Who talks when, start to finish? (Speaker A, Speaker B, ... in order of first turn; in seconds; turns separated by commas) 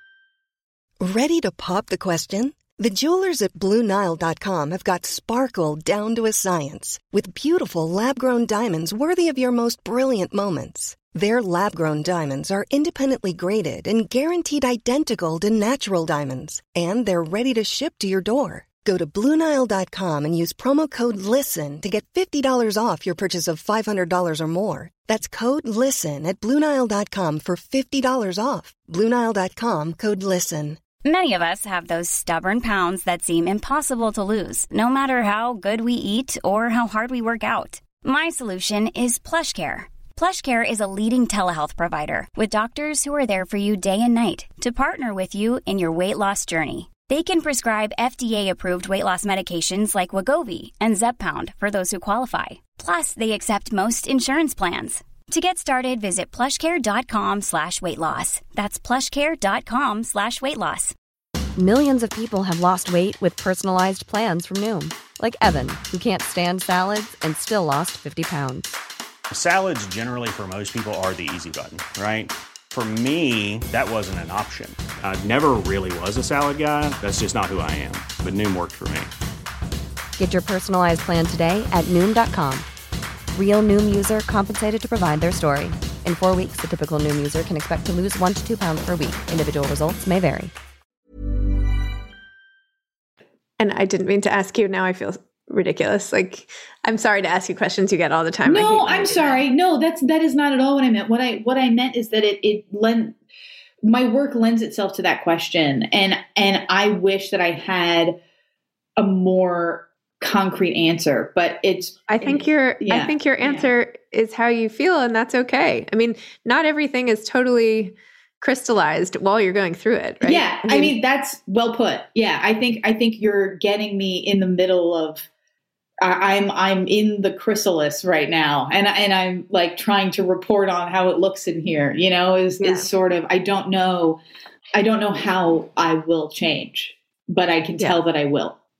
Speaker A: 1.0-30.8, Speaker B: 31.0-60.9, Speaker C: 61.5-68.7, Speaker D: 69.3-79.1, Speaker C: 80.2-82.7, Speaker C: 83.3-90.5, Speaker E: 93.6-99.4, Speaker F: 98.5-103.2, Speaker F: 103.8-108.2, Speaker F: 109.0-113.7, Speaker E: 112.1-120.9, Speaker F: 120.2-125.3, Speaker F: 126.0-134.2, Speaker E: 132.6-132.9, Speaker F: 134.7-138.6